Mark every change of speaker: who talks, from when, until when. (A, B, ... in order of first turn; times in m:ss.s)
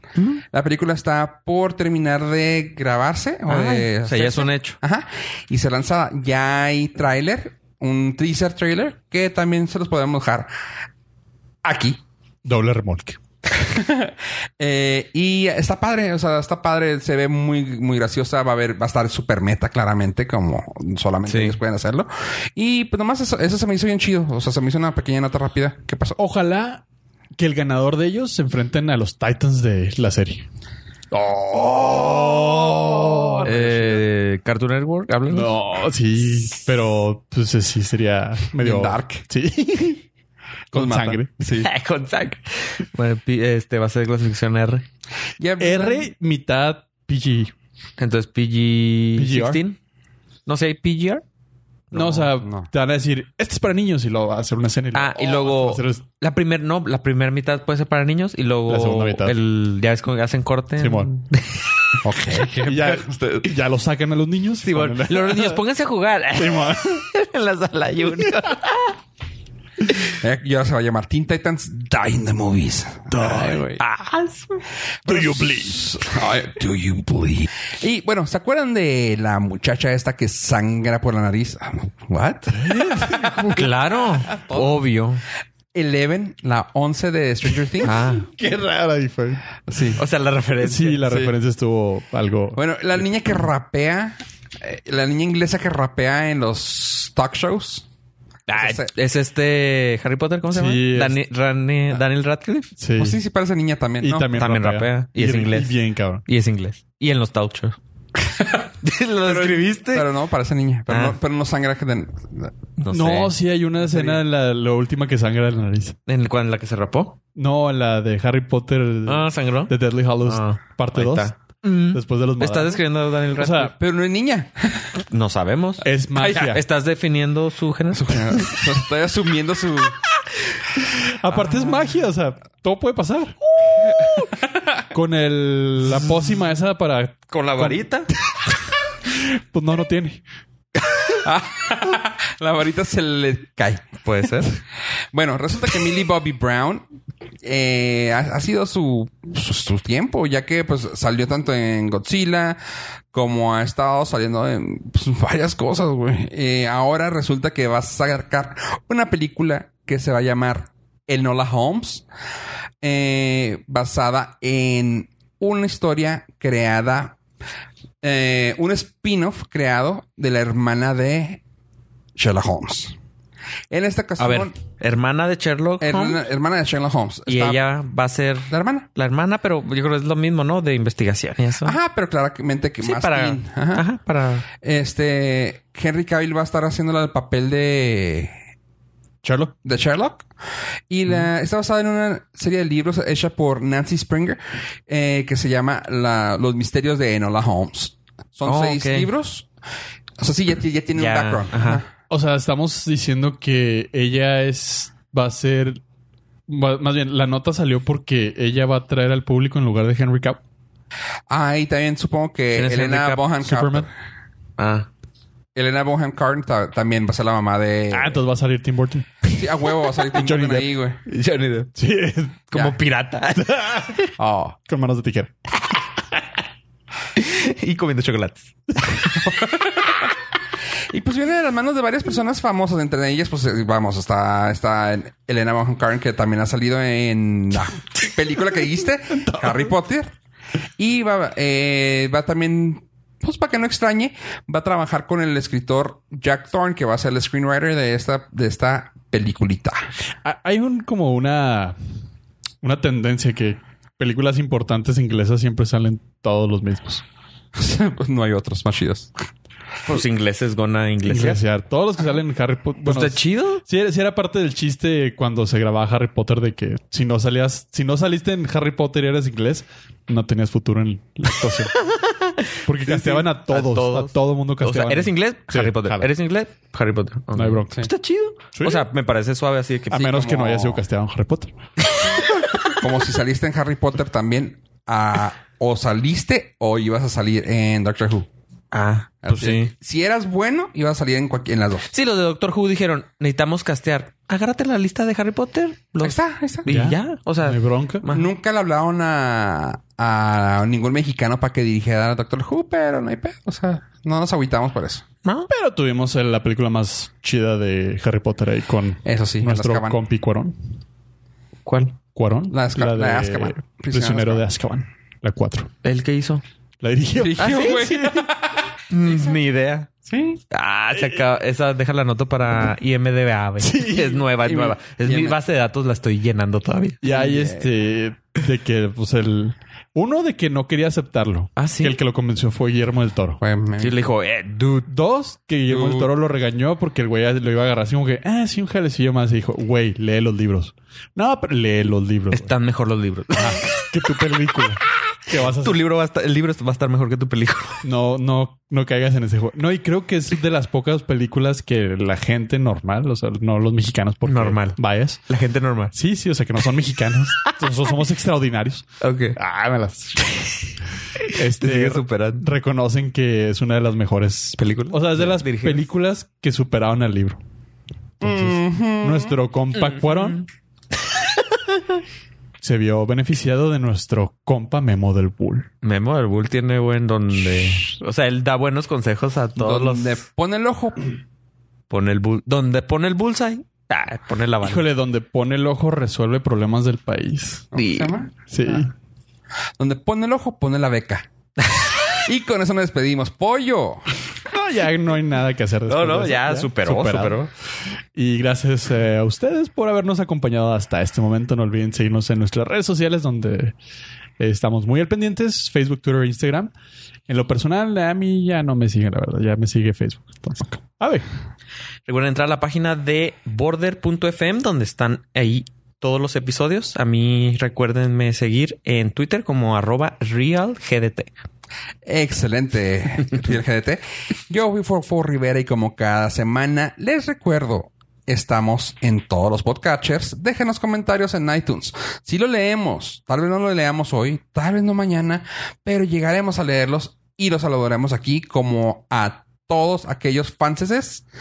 0:00.2-0:00.4 A
0:00.5-0:10.5 B
0:03.5-0:04.8 A
0:11.6-0:12.0 B
0:12.4-0:13.2 C
0:13.5-0:26.2 B
0:21.3-0:21.6 A
0:26.2-0:26.8 C
0:27.4-0:30.4 C
0:31.1-0:34.0 C
0:32.0-0:33.3 B
0:33.4-0:35.5 A
0:35.3-0:40.0 C
0:38.6-0:39.2 B
0:40.7-0:41.7 B
0:40.7-0:41.3 C
0:41.5-0:44.8 A
0:45.4-0:46.1 B
0:45.6-0:47.5 C
0:48.0-0:49.8 A
0:49.2-0:49.6 C
0:50.4-0:51.2 A
0:51.9-0:52.3 A
0:51.9-0:56.0 C
0:52.4-0:52.7 B
0:54.9-1:01.9 A
0:58.7-0:59.3 C
1:00.8-1:01.1 C
1:02.0-1:03.5 B
1:02.6-1:05.6 C
1:04.6-1:09.0 A
1:06.4-1:07.1 C
1:10.2-1:13.8 B
1:13.1-1:13.6 C
1:13.2-1:14.6 A
1:15.0-1:16.0 C
1:15.0-1:23.5 B
1:22.5-1:23.7 C
1:23.5-1:25.2 A
1:24.3-1:24.8 B
1:25.7-1:27.9 B
1:27.8-1:28.3 A
1:28.3-1:29.4 C
1:29.6-1:30.0 B
1:30.0-1:31.1 A
1:30.6-1:33.0 C
1:31.0-1:31.3 B
1:32.6-1:37.8 B
1:38.5-1:42.7 A
1:38.5-1:38.9 B
1:40.5-1:41.2 C
1:42.8-1:43.2 C
1:43.0-1:44.3 B
1:44.0-1:46.2 C
1:44.3-1:47.8 A
1:48.3-1:48.6 B
1:48.8-1:50.1 A
1:49.2-1:52.5 B
1:50.9-1:51.2 A
1:52.8-1:53.3 A
1:52.8-1:56.0 C
1:53.9-1:54.2 A
1:56.0-1:57.2 A
1:57.4-2:01.3 C
1:59.0-2:03.7 A
2:01.9-2:03.7 C
2:03.7-2:04.9 B
2:05.1-2:08.2 A
2:05.8-2:06.6 C
2:06.2-2:06.5 B
2:07.9-2:10.0 B
2:11.0-2:14.0 C
2:11.3-2:11.8 A
2:13.8-2:14.3 A
2:14.9-2:18.5 C
2:17.3-2:18.1 A
2:19.0-2:20.2 C
2:21.2-2:24.0 B
2:24.0-2:24.5 A
2:25.1-2:26.8 B
2:27.4-2:32.6 B
2:33.1-2:42.0 B
2:42.8-2:47.2 B
2:48.0-2:51.4 B
2:52.2-2:53.0 B
2:53.7-2:54.5 B
2:54.2-2:56.2 A
2:55.8-2:57.6 B
2:57.3-3:01.8 A
2:58.5-2:58.9 B
3:01.6-3:03.8 B
3:02.8-3:04.4 A
3:04.6-3:08.3 B
3:09.2-3:09.5 C
3:09.6-3:10.3 B
3:10.9-3:19.5 B
3:18.4-3:19.1 A
3:20.2-3:21.9 B
3:20.9-3:21.8 A
3:22.1-3:25.8 C
3:26.5-3:30.4 C
3:31.3-3:33.9 B
3:32.5-3:33.2 A
3:33.4-3:33.9 C
3:34.6-3:34.9 A
3:35.5-3:38.2 B
3:37.9-3:40.7 C
3:39.3-3:41.0 B
3:41.0-3:41.7 A
3:41.8-3:42.4 C
3:42.5-3:44.1 A
3:42.5-3:42.8 B
3:44.2-3:44.6 B
3:44.7-3:45.3 C
3:47.1-3:49.3 A
3:49.2-3:50.0 B
3:50.9-4:00.1 B
3:59.2-3:59.6 C
4:00.8-4:09.9 B
4:10.2-4:11.8 C
4:12.6-4:17.0 C
4:17.5-4:19.1 B
4:19.8-4:21.4 A
4:21.0-4:31.7 C
4:22.8-4:23.6 A
4:31.8-4:40.1 A
4:32.6-4:36.1 C
4:37.3-4:37.9 C
4:38.5-4:38.9 C
4:39.9-4:41.5 C
4:39.9-4:40.8 B
4:41.9-4:42.8 A
4:42.6-4:48.3 B
4:48.7-4:49.7 A
4:49.2-4:51.9 B
4:51.9-4:58.3 A
4:56.0-4:56.7 B
4:56.6-4:58.0 C
4:58.1-5:05.0 B
5:05.5-5:10.5 C
5:09.0-5:10.0 B
5:11.6-5:12.0 A
5:12.1-5:15.7 C
5:12.5-5:14.4 B
5:15.8-5:16.4 A
5:16.8-5:17.8 C
5:17.2-5:18.6 B
5:17.4-5:18.3 A
5:18.9-5:19.9 A
5:20.0-5:20.4 B
5:20.5-5:27.0 A
5:23.6-5:24.3 C
5:24.4-5:25.4 B
5:27.0-5:33.4 C
5:27.0-5:27.7 B
5:31.6-5:32.0 A
5:33.4-5:34.0 B
5:33.8-5:34.9 A
5:34.9-5:42.5 C
5:35.7-5:36.1 B
5:42.3-5:43.9 A
5:43.3-5:45.8 C
5:45.3-5:47.9 A
5:47.8-5:55.2 C
5:54.2-5:55.9 A
5:55.9-6:00.2 C
5:59.0-5:59.4 A
6:00.2-6:00.6 A
6:01.2-6:02.5 A
6:01.3-6:07.4 C
6:04.6-6:05.8 A
6:08.2-6:10.4 C
6:08.2-6:09.4 B
6:11.4-6:11.8 A
6:12.6-6:15.7 C
6:15.8-6:20.2 A
6:19.6-6:21.1 B
6:21.9-6:24.9 A
6:24.6-6:27.7 C
6:27.7-6:28.9 B
6:27.7-6:28.1 A
6:28.5-6:28.9 C
6:29.8-6:31.2 B
6:31.6-6:31.9 A
6:31.8-6:34.1 B
6:34.5-6:37.4 C
6:35.9-6:37.5 A
6:38.1-6:43.7 C
6:44.4-6:46.7 C
6:47.3-6:51.2 C
6:52.0-7:01.3 A
7:02.0-7:21.2 B